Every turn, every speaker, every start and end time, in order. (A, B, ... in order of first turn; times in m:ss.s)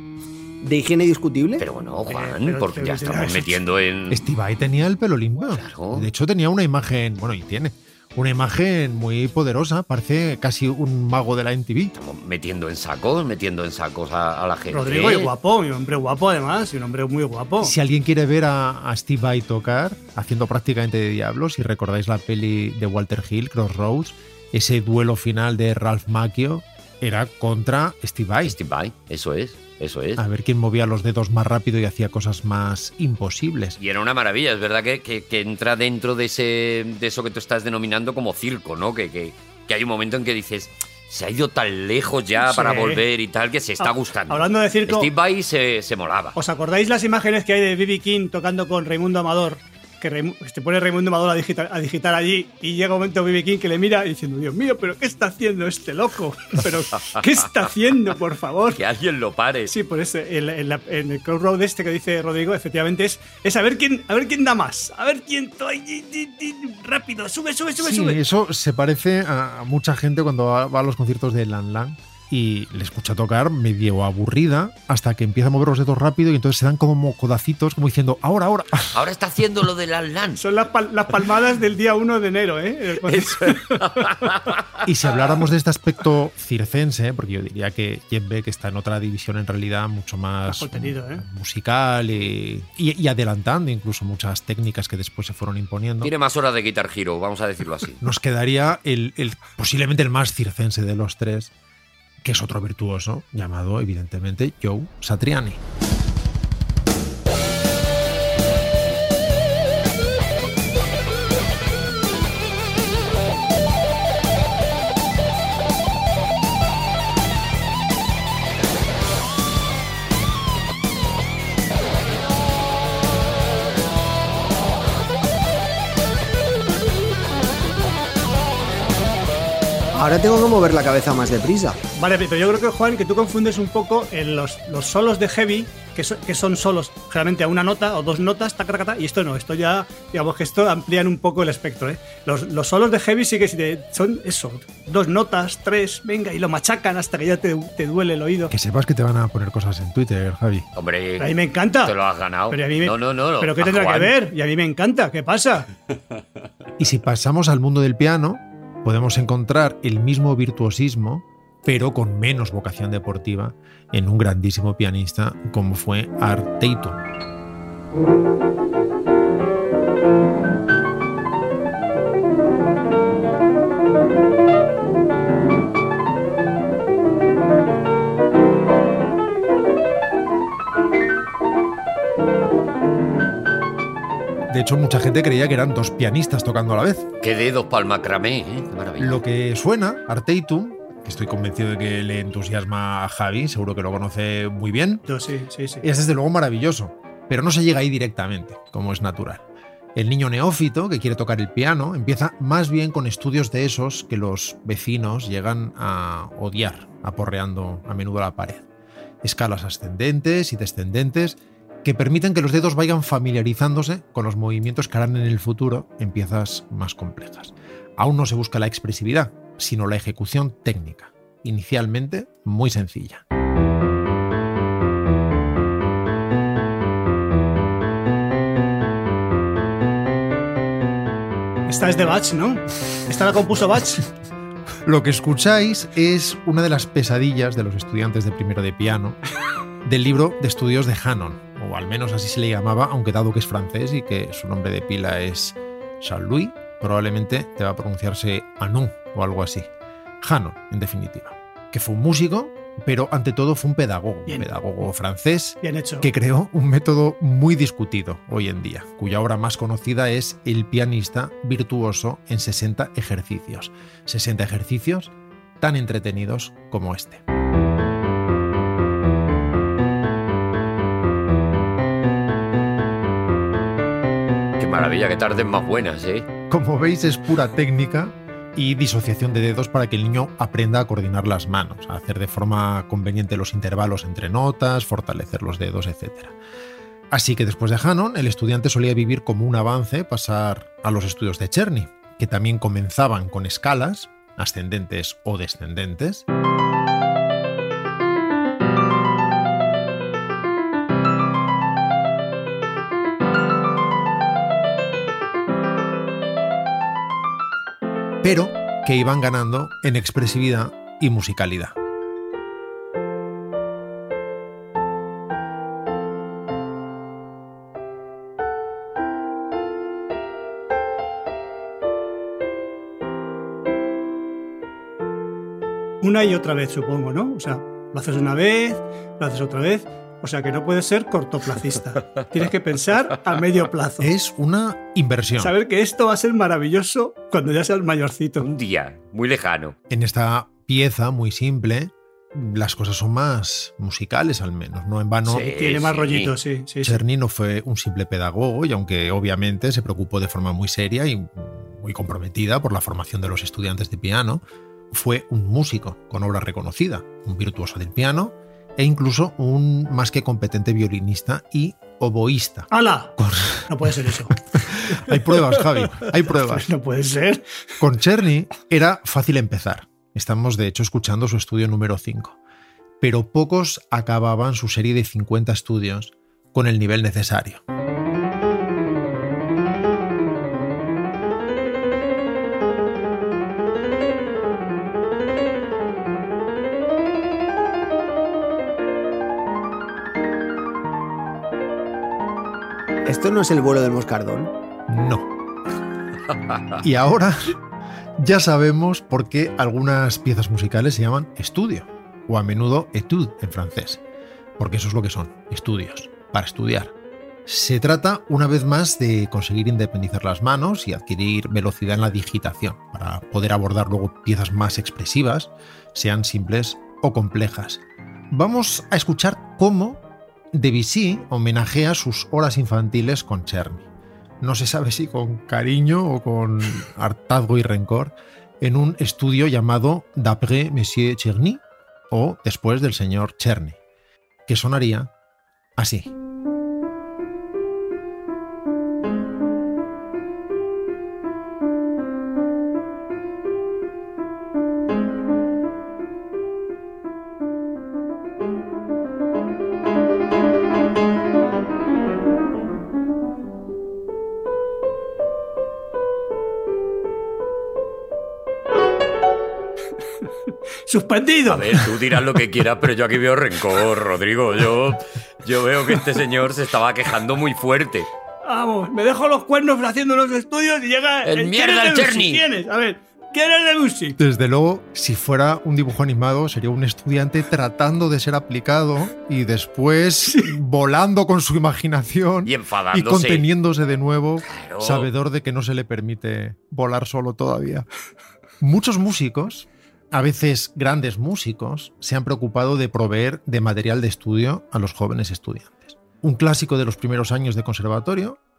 0:00.6-0:01.6 A
0:01.6-0:04.2 B
0:02.1-0:03.6 C
0:04.1-0:12.0 D
0:05.5-0:06.1 B
0:12.0-0:15.3 B
0:14.7-0:17.7 C
0:17.6-0:28.6 D
0:28.4-0:30.2 B
0:30.2-0:33.8 D
0:33.8-0:46.4 B
0:42.4-0:43.0 C
0:43.8-0:45.1 C
0:46.4-0:58.8 C
0:58.7-0:59.7 B
0:59.7-1:08.2 C
1:07.8-1:19.0 D
1:18.9-1:20.4 B
1:20.4-1:24.1 C
1:23.1-1:24.8 B
1:24.8-1:36.1 D
1:30.5-1:31.2 C
1:36.0-1:38.0 B
1:38.0-1:41.5 D
1:42.2-1:45.6 D
2:09.9-2:11.8 A
2:12.0-2:28.5 C
2:28.5-2:30.7 D
2:30.8-2:31.3 B
2:31.2-2:31.9 C
2:31.8-2:34.2 B
2:32.5-2:35.7 C
2:36.8-2:47.0 D
3:04.5-3:07.1 D
3:07.2-3:09.2 B
3:09.0-3:15.0 D
3:15.1-3:15.9 C
3:15.8-3:19.4 D
3:20.0-3:28.7 D
3:29.2-3:43.2 D
3:51.7-3:54.0 C
3:54.8-3:59.2 D
3:59.8-4:09.7 D
4:10.2-4:27.2 D
4:15.6-4:16.1 C
4:34.6-4:36.3 B
4:36.5-4:46.4 D
4:47.1-4:56.2 D
5:08.2-5:11.8 D
5:26.0-5:34.1 C
5:34.0-5:35.6 D
5:35.4-5:38.5 C
5:38.4-5:39.8 B
5:39.9-5:45.6 D
5:45.3-5:46.3 B
5:45.5-5:47.0 C
5:46.8-6:06.7 D
6:02.7-6:03.1 C
6:03.7-6:04.4 C
6:05.1-6:07.4 C
6:07.8-6:12.4 D
6:13.0-6:17.6 D
6:33.1-6:34.5 A
6:34.9-6:35.3 D
6:36.8-6:37.6 D
6:38.2-6:44.0 D
6:44.6-6:46.9 D
6:47.5-7:00.0 D
7:00.5-7:03.9 D
7:04.4-7:13.8 D
7:14.5-7:15.1 D
7:15.8-7:16.1 D
7:40.9-7:41.8 C
7:41.5-7:48.1 B
7:48.4-7:54.2 C
7:51.2-7:52.4 B
7:54.2-8:07.9 D
8:02.4-8:03.5 B
8:04.5-8:05.1 B
8:08.6-8:18.4 D